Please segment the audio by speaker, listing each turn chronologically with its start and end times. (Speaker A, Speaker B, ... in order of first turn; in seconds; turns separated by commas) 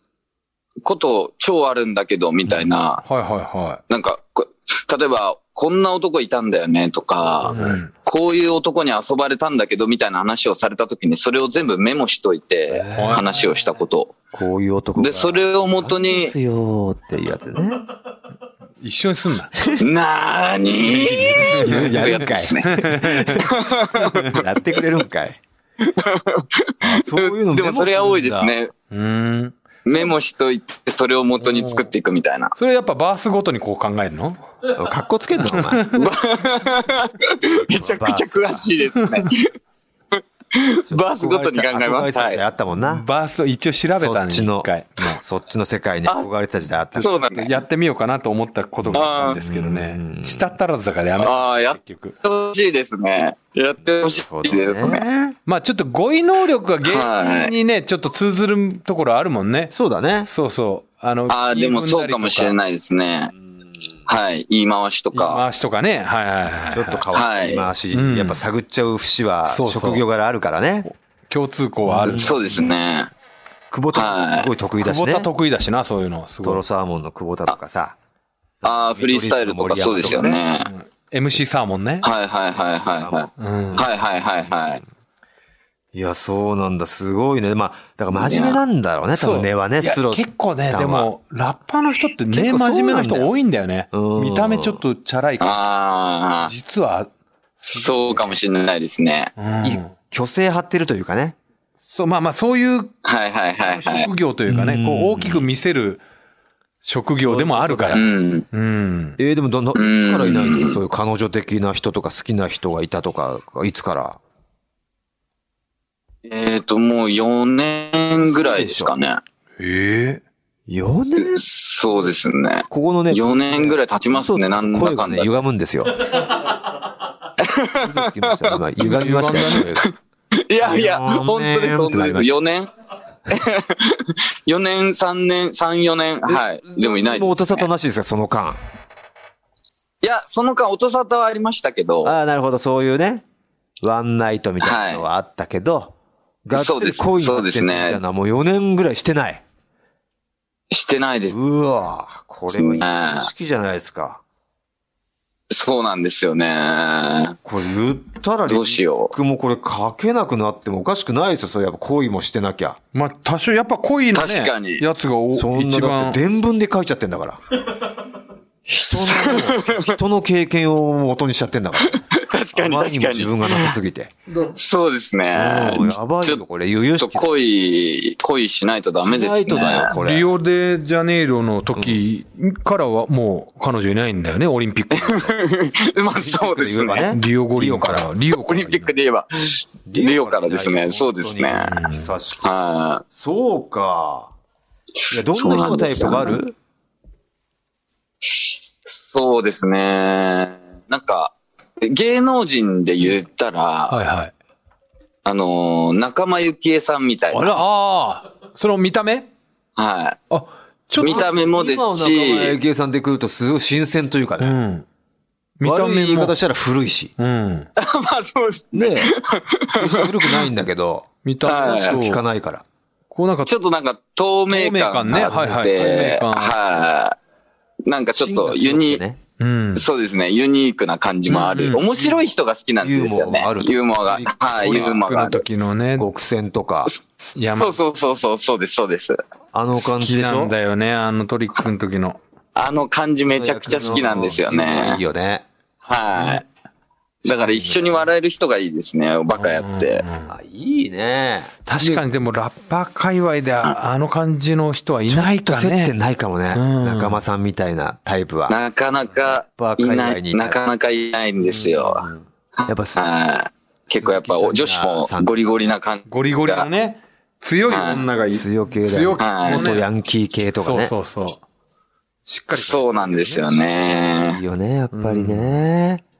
Speaker A: 0.8-3.0, Speaker B: 3.0-3.8, Speaker A: 3.9-14.1, Speaker C: 7.5-7.8, Speaker B: 7.5-7.9, Speaker C: 12.7-13.2, Speaker B: 12.9-13.3, Speaker C: 14.3-17.8, Speaker A: 15.0-16.3, Speaker B: 18.8-19.5, Speaker A: 19.8-24.4, Speaker B: 20.9-23.4, Speaker C: 21.0-25.4, Speaker A: 25.8-28.7, Speaker C: 26.8-28.5, Speaker B: 28.9-29.9, Speaker A: 29.8-32.5, Speaker B: 31.4-31.9, Speaker B: 32.5-34.4, Speaker C: 34.7-36.0, Speaker B: 35.5-36.0, Speaker A: 36.0-39.5, Speaker C: 37.4-38.7, Speaker A: 40.2-42.4, Speaker C: 40.9-43.0, Speaker B: 42.8-45.2, Speaker C: 43.9-44.7, Speaker C: 45.2-47.1, Speaker A: 47.0-47.5, Speaker B: 47.0-52.1, Speaker C: 48.9-50.4, Speaker A: 48.9-49.4, Speaker A: 51.2-55.0, Speaker C: 54.0-55.4, Speaker B: 55.5-59.7, Speaker A: 56.9-57.5, Speaker C: 59.7-60.3, Speaker B: 60.2-62.6, Speaker A: 61.3-63.3, Speaker A: 64.1-65.4, Speaker B: 65.1-67.0, Speaker C: 66.7-70.9, Speaker A: 67.1-67.7, Speaker B: 67.9-68.4, Speaker B: 69.5-70.0, Speaker B: 71.3-72.7, Speaker C: 71.9-72.4, Speaker A: 72.0-73.1, Speaker C: 73.7-75.3, Speaker A: 73.9-74.5, Speaker B: 74.8-76.6, Speaker C: 76.4-78.0, Speaker C: 78.6-80.4, Speaker A: 78.6-80.7, Speaker B: 80.6-82.1, Speaker A: 82.0-84.8, Speaker C: 82.9-83.9, Speaker B: 83.4-83.9, Speaker C: 85.9-91.1, Speaker A: 88.1-88.6, Speaker B: 89.2-95.6, Speaker C: 92.3-93.3, Speaker C: 93.9-94.8, Speaker A: 95.4-96.5, Speaker B: 96.4-98.4, Speaker A: 97.7-99.3, Speaker B: 99.4-99.9, Speaker C: 99.6-101.4, Speaker B: 101.8-102.9, Speaker A: 103.0-104.1, Speaker B: 103.6-106.0, Speaker C: 104.5-105.4, Speaker B: 106.8-109.2, Speaker C: 107.1-108.1, Speaker A: 107.9-108.5, Speaker C: 109.2-114.2, Speaker A: 109.7-110.8, Speaker A: 116.2-119.2, Speaker C: 118.2-118.9, Speaker B: 119.6-120.2, Speaker C: 120.7-121.4, Speaker A: 121.3-125.3, Speaker C: 122.7-126.2, Speaker A: 127.4-128.6, Speaker C: 127.8-129.9, Speaker B: 128.8-129.7, Speaker A: 130.4-132.7, Speaker C: 130.6-132.3, Speaker A: 133.3-137.7, Speaker C: 136.3-138.6, Speaker A: 140.0-142.1, Speaker C: 142.0-143.2, Speaker C: 143.8-145.9, Speaker A: 144.6-145.0, Speaker C: 146.4-149.4, Speaker A: 146.5-148.0, Speaker A: 150.7-151.4, Speaker C: 151.3-154.2, Speaker A: 152.5-153.3, Speaker A: 155.5-157.4, Speaker C: 157.4-162.8, Speaker A: 158.5-159.1, Speaker B: 162.9-166.2, Speaker A: 164.1-164.8, Speaker C: 165.3-167.4, Speaker C: 168.6-174.1, Speaker A: 168.9-169.9, Speaker A: 171.9-173.7, Speaker A: 174.5-176.4, Speaker C: 175.3-177.3, Speaker A: 177.0-179.9, Speaker C: 179.0-180.3, Speaker B: 179.9-185.3, Speaker A: 184.9-187.1, Speaker C: 186.1-188.1, Speaker B: 187.1-188.9, Speaker A: 188.4-191.8, Speaker C: 189.9-192.5, Speaker B: 191.6-192.1, Speaker A: 192.4-193.0, Speaker C: 193.1-194.3, Speaker C: 195.1-196.5, Speaker A: 195.3-196.4, Speaker A: 199.0-204.0, Speaker B: 203.9-204.3, Speaker A: 205.2-207.5, Speaker C: 207.3-207.7, Speaker B: 207.5-209.3, Speaker A: 209.8-210.2, Speaker B: 210.3-211.3, Speaker A: 211.0-212.6, Speaker C: 211.0-214.6, Speaker B: 214.4-214.9, Speaker B: 215.6-216.4, Speaker C: 215.6-217.1, Speaker B: 217.2-217.7, Speaker A: 217.8-220.5, Speaker C: 218.7-219.1, Speaker C: 219.7-222.6, Speaker B: 221.2-222.2, Speaker A: 221.4-222.0, Speaker B: 223.1-223.5, Speaker A: 223.5-227.2, Speaker B: 224.5-226.6, Speaker C: 225.1-225.4, Speaker A: 227.9-229.0, Speaker C: 228.1-229.2, Speaker B: 229.4-229.9, Speaker A: 229.7-235.4, Speaker B: 231.3-232.3, Speaker C: 232.8-234.9, Speaker B: 234.6-236.1, Speaker C: 236.0-236.9, Speaker B: 237.4-237.8, Speaker A: 237.5-239.2, Speaker C: 239.5-240.5, Speaker B: 239.8-242.2, Speaker A: 242.6-245.0, Speaker C: 243.3-245.4, Speaker B: 243.8-244.4, Speaker A: 245.9-246.4, Speaker B: 246.1-246.4, Speaker C: 247.2-248.1, Speaker A: 247.2-250.0, Speaker B: 249.3-250.3, Speaker C: 250.2-252.0, Speaker B: 251.7-256.0, Speaker C: 255.1-258.6, Speaker B: 256.5-257.2, Speaker A: 258.5-262.0, Speaker C: 259.2-260.6, Speaker B: 261.4-262.2, Speaker A: 262.6-266.7, Speaker C: 262.7-263.1, Speaker C: 263.9-265.5, Speaker B: 266.1-269.9, Speaker A: 267.7-268.0, Speaker C: 268.3-270.9, Speaker A: 269.2-269.8, Speaker B: 270.6-271.4, Speaker B: 272.2-273.9, Speaker A: 272.5-274.4, Speaker C: 274.2-276.0, Speaker B: 274.9-275.6